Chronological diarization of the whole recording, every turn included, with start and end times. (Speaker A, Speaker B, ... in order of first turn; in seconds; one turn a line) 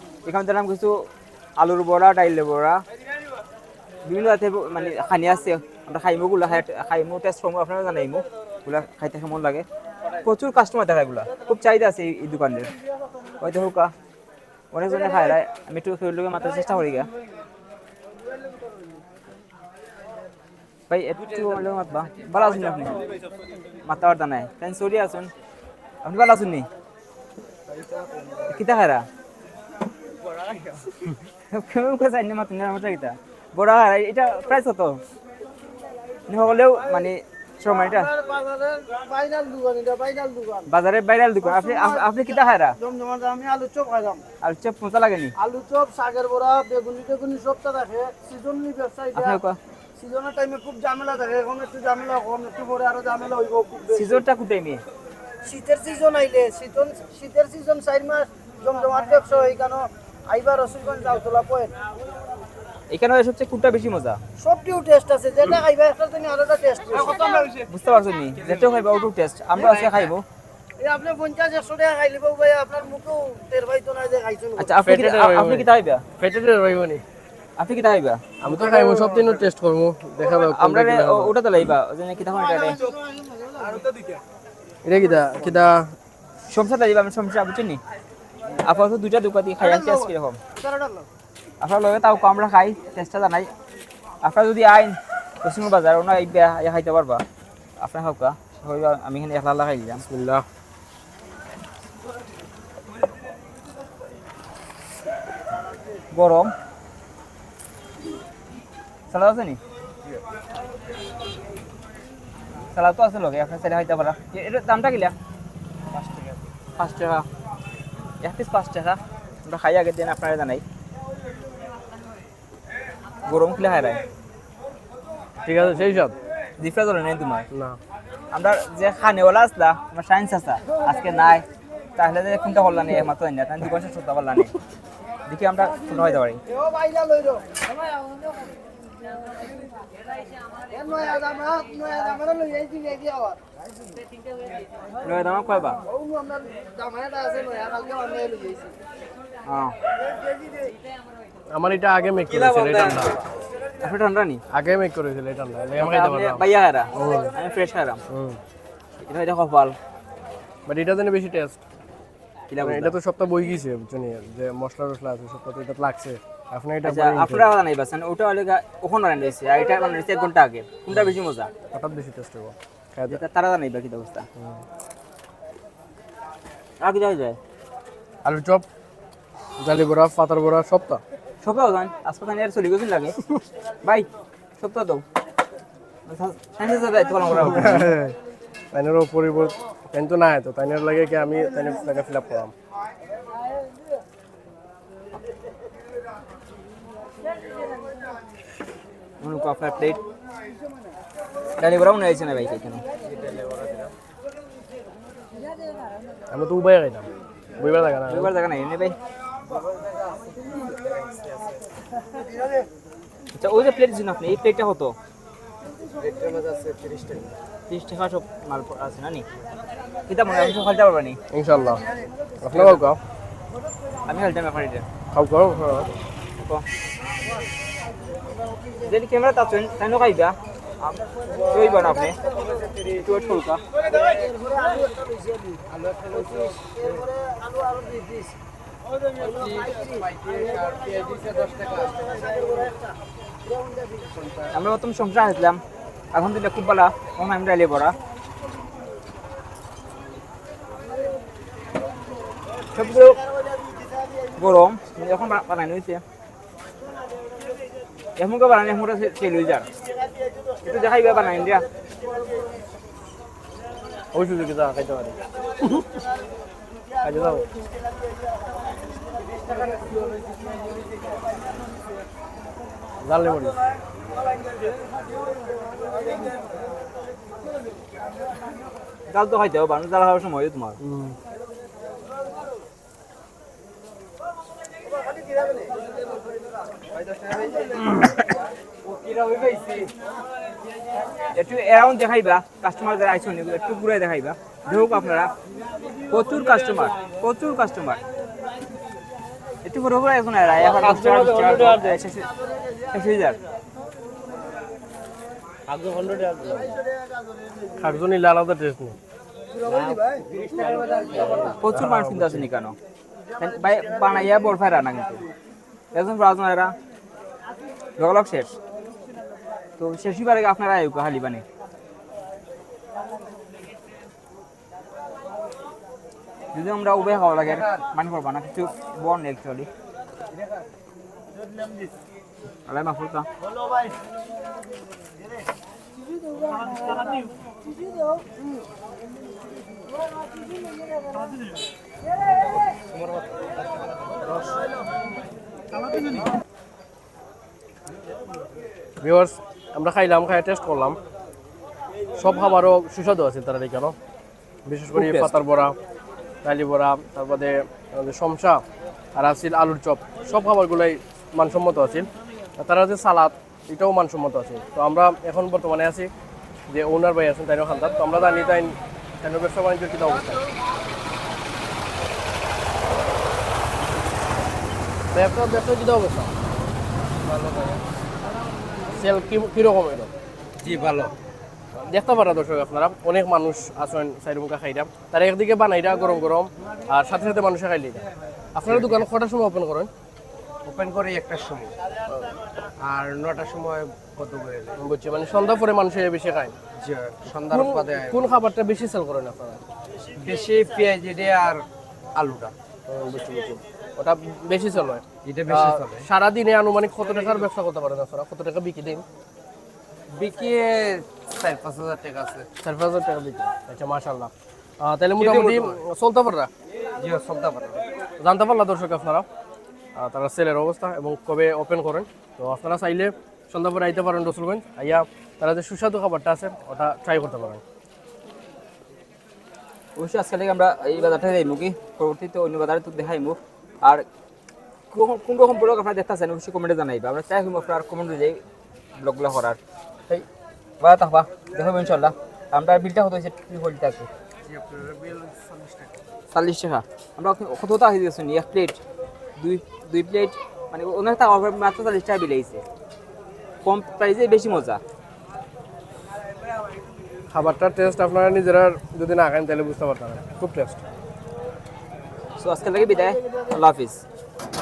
Speaker A: 0.2-1.1
Speaker A: 1.6-2.8
Speaker A: 4.0-9.7
Speaker A: 10.2-12.7
Speaker A: 13.4-13.9
Speaker A: 14.7-17.1
Speaker A: 20.9-23.0
Speaker A: 23.8-25.3
Speaker A: 26.0-26.7
Speaker A: 28.5-29.1
Speaker A: 31.0-35.0
Speaker A: 36.3-38.1
Speaker B: 37.9-40.7
Speaker A: 40.7-42.8
Speaker B: 41.5-42.2
Speaker B: 42.8-44.2
Speaker A: 44.4-45.3
Speaker B: 45.4-49.4
Speaker A: 49.2-49.6
Speaker B: 50.0-54.1
Speaker A: 53.9-54.8
Speaker B: 55.4-61.7
Speaker A: 62.9-64.2
Speaker B: 64.4-67.7
Speaker A: 67.7-70.2
Speaker B: 70.8-74.7
Speaker A: 74.6-76.0
Speaker C: 74.8-77.0
Speaker A: 77.6-78.2
Speaker C: 78.4-81.3
Speaker D: 78.5-79.3
Speaker A: 80.3-82.8
Speaker B: 82.8-83.8
Speaker C: 84.8-85.9
Speaker A: 86.5-87.8
Speaker A: 88.5-90.4
Speaker B: 90.6-91.1
Speaker A: 91.6-93.5
Speaker A: 94.2-97.2
Speaker A: 97.8-100.0
Speaker C: 100.0-100.4
Speaker A: 106.1-106.5
Speaker A: 109.1-109.6
Speaker A: 112.7-115.1
Speaker A: 116.0-116.2
Speaker A: 116.8-117.2
Speaker A: 118.2-120.6
Speaker A: 123.2-124.0
Speaker C: 125.4-126.1
Speaker A: 126.6-127.5
Speaker C: 127.5-127.8
Speaker A: 128.3-131.4
Speaker A: 131.9-134.5
Speaker A: 135.3-136.4
Speaker B: 136.5-137.6
Speaker B: 140.7-143.4
Speaker A: 145.0-145.8
Speaker B: 145.9-148.8
Speaker A: 149.4-149.7
Speaker C: 151.5-153.2
Speaker D: 152.5-153.2
Speaker A: 153.8-154.4
Speaker C: 154.5-157.3
Speaker A: 155.8-158.0
Speaker C: 158.1-158.4
Speaker A: 159.0-159.8
Speaker C: 160.7-161.6
Speaker A: 162.5-162.9
Speaker C: 162.6-167.5
Speaker A: 166.8-171.5
Speaker C: 171.7-173.2
Speaker A: 173.1-174.2
Speaker C: 174.4-174.6
Speaker A: 176.8-177.4
Speaker C: 178.2-178.6
Speaker C: 179.6-181.0
Speaker A: 181.4-183.2
Speaker A: 184.6-185.0
Speaker A: 186.1-187.9
Speaker C: 187.3-188.2
Speaker C: 188.7-192.5
Speaker A: 199.2-200.0
Speaker A: 201.6-202.8
Speaker D: 203.0-203.9
Speaker C: 206.3-208.3
Speaker A: 208.1-208.9
Speaker D: 210.4-211.6
Speaker A: 213.3-214.9
Speaker D: 216.0-217.3
Speaker A: 217.7-219.2
Speaker A: 220.1-221.2
Speaker C: 221.3-221.8
Speaker C: 222.4-223.0
Speaker A: 222.4-222.8
Speaker A: 224.1-224.8
Speaker C: 225.1-225.9
Speaker A: 228.8-230.3
Speaker A: 231.4-232.2
Speaker B: 232.1-232.7
Speaker D: 232.3-232.9
Speaker A: 232.9-233.6
Speaker B: 233.8-238.3
Speaker D: 235.7-237.0
Speaker B: 239.1-242.9
Speaker D: 239.2-242.2
Speaker B: 243.5-244.1
Speaker D: 244.1-244.5
Speaker A: 244.5-245.6
Speaker A: 246.1-248.0
Speaker A: 252.7-253.2
Speaker A: 254.4-256.0
Speaker A: 258.2-259.7
Speaker A: 260.6-261.7
Speaker C: 264.1-266.0
Speaker C: 267.0-267.5
Speaker C: 273.0-273.6
Speaker A: 279.1-280.8
Speaker C: 280.8-281.2
Speaker D: 286.9-287.9
Speaker D: 288.8-289.9
Speaker A: 291.3-295.3
Speaker A: 296.1-298.0
Speaker A: 299.6-302.3
Speaker D: 300.9-301.9
Speaker A: 302.9-303.4
Speaker D: 305.7-306.7
Speaker C: 307.8-309.0
Speaker B: 309.6-311.5
Speaker D: 309.6-311.6
Speaker A: 311.6-312.8
Speaker C: 311.7-312.4
Speaker A: 313.4-315.2
Speaker A: 315.9-316.7
Speaker A: 318.0-318.6
Speaker A: 319.8-321.4
Speaker A: 326.5-329.7
Speaker A: 332.7-333.3
Speaker C: 349.0-351.0
Speaker C: 352.1-353.9
Speaker C: 354.6-355.8
Speaker A: 354.9-355.3
Speaker C: 356.4-358.6
Speaker C: 359.1-362.1
Speaker C: 362.6-366.1
Speaker C: 366.7-370.4
Speaker C: 375.1-376.3
Speaker D: 377.2-377.8
Speaker C: 378.9-380.1
Speaker D: 380.6-381.1
Speaker C: 381.8-389.9
Speaker D: 388.7-389.0
Speaker D: 390.6-391.7
Speaker D: 392.8-394.8
Speaker C: 394.8-396.6
Speaker D: 396.8-398.3
Speaker C: 397.5-399.6
Speaker D: 400.2-402.5
Speaker C: 402.9-409.0
Speaker D: 405.2-406.1
Speaker D: 410.1-412.5
Speaker C: 412.6-416.5
Speaker D: 415.2-415.8
Speaker D: 417.0-417.8
Speaker C: 418.2-419.2
Speaker C: 419.9-427.6
Speaker A: 430.0-434.1
Speaker A: 434.9-438.4
Speaker A: 439.0-439.6
Speaker A: 440.8-444.1
Speaker D: 444.4-445.9
Speaker A: 446.3-448.8
Speaker A: 449.4-452.6
Speaker A: 453.6-454.8
Speaker C: 457.3-460.8
Speaker A: 462.4-464.0